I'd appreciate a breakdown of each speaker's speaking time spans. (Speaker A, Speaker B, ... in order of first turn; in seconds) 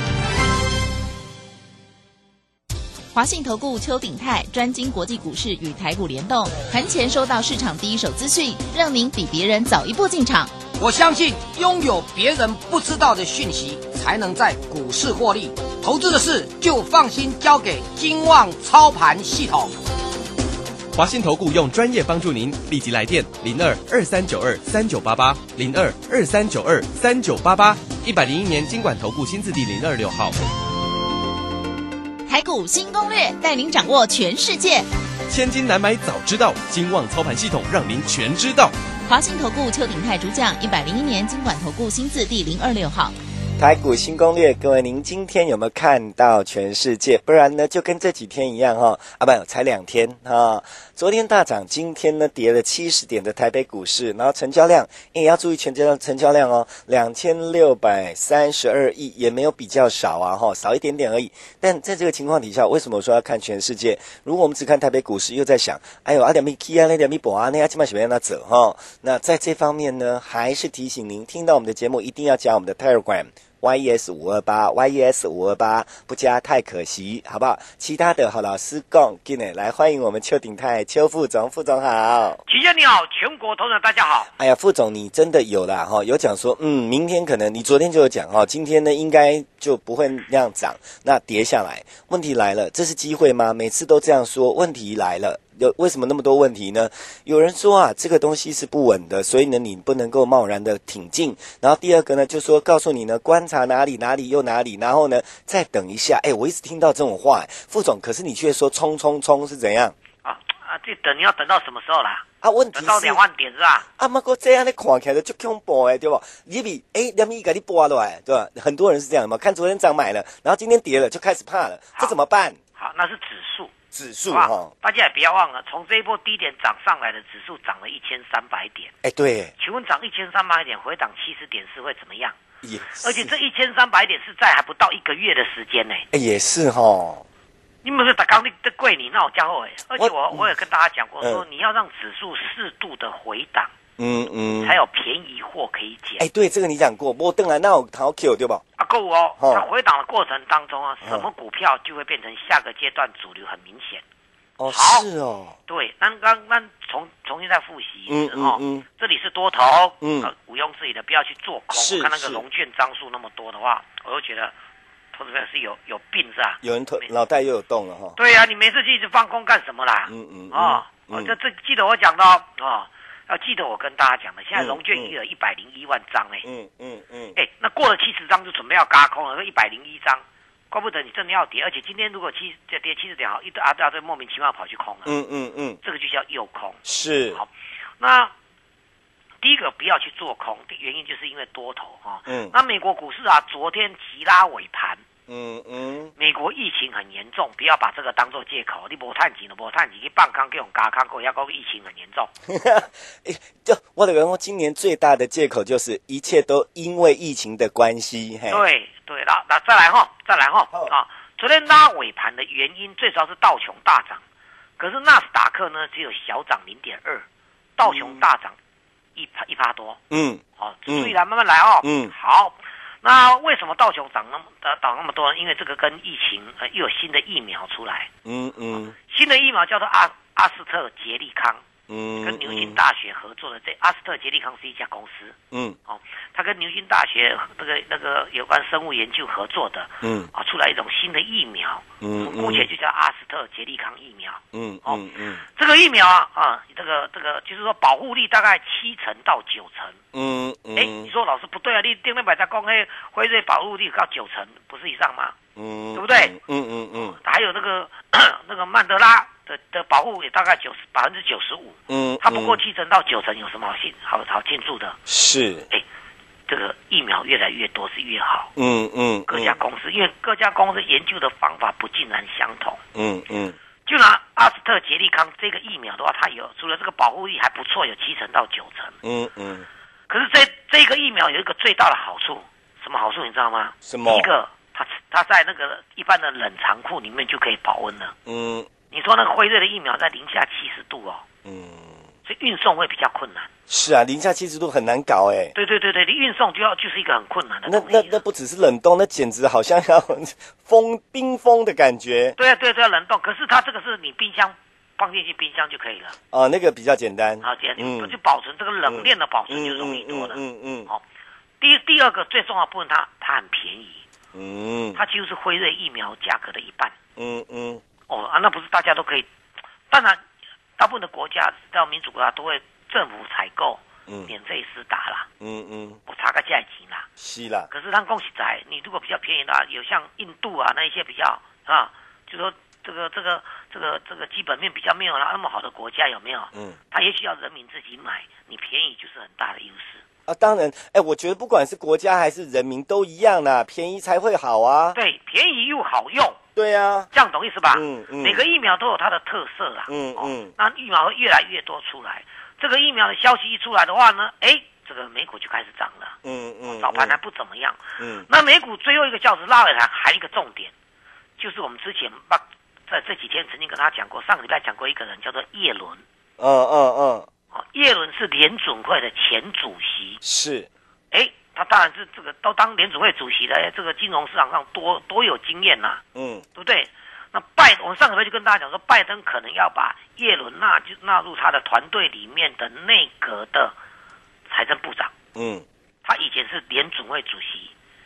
Speaker A: 3.1-10.5, 32.3-34.9, 39.0-43.1
Speaker B: 10.8-19.7
Speaker C: 20.9-30.4, 35.3-38.7
Speaker D: 43.6-82.4, 84.4-109.9, 112.4-113.2, 114.0-122.6, 123.9-124.7, 129.0-129.5, 132.6-133.3, 136.1-137.2, 139.9-140.5, 144.0-144.8, 146.2-148.6, 149.4-149.6, 154.6-155.6, 158.1-158.8, 160.0-160.3, 161.7-162.4, 166.6-168.2, 170.1-171.3, 174.5-175.1, 176.4-177.3, 185.0-185.8, 186.8-187.4, 192.2-192.5, 195.3-196.1, 202.5-208.6, 217.8-218.3, 220.1-221.1, 221.8-222.1, 228.2-228.9, 231.9-232.8, 235.5-235.8, 240.0-240.3, 242.0-242.7, 244.5-245.4, 250.1-251.1, 255.6-257.2, 261.9-262.6, 265.1-265.6, 268.6-269.6, 272.9-273.6, 279.0-279.6, 283.8-284.3, 288.2-288.7, 291.4-292.0, 293.7-295.5, 297.6-302.4, 306.3-308.1, 308.9-310.9, 314.3-315.0, 317.2-317.8, 324.1-324.3, 325.4-326.0, 327.2-327.7, 340.3-345.0, 346.6-347.1, 347.7-348.4, 349.9-350.5, 356.2-357.2, 358.0-358.3, 366.4-367.3, 370.2-370.7, 376.1-376.4, 385.3-385.6
Speaker E: 82.5-84.3, 110.2-113.8, 122.8-123.7, 124.3-128.9, 129.6-132.3, 133.0-136.1, 137.8-143.7, 144.6-146.2, 148.8-154.0, 154.7-155.1, 155.7-164.5, 165.1-167.1, 168.2-176.4, 177.3-185.1, 185.8-188.3, 189.4-195.0, 196.2-202.3, 208.5-214.2, 214.8-217.2, 217.8-218.6, 219.2-220.0, 220.6-228.1, 229.1-231.6, 232.2-235.3, 235.9-250.0, 250.8-255.3, 255.9-256.3, 257.2-265.0, 266.5-268.5, 269.3-272.8, 273.9-279.0, 280.1-288.1, 288.9-291.2, 292.2-293.5, 295.5-298.2, 302.4-306.1, 307.4-311.0, 311.6-314.0, 314.9-316.9, 318.1-319.3, 319.9-320.2, 320.8-325.3, 326.1-327.1, 327.7-340.0, 344.9-346.4, 347.1-360.7, 361.4-366.0, 367.5-370.2, 371.1-376.0, 376.6-383.7, 384.5-385.1, 386.0-387.7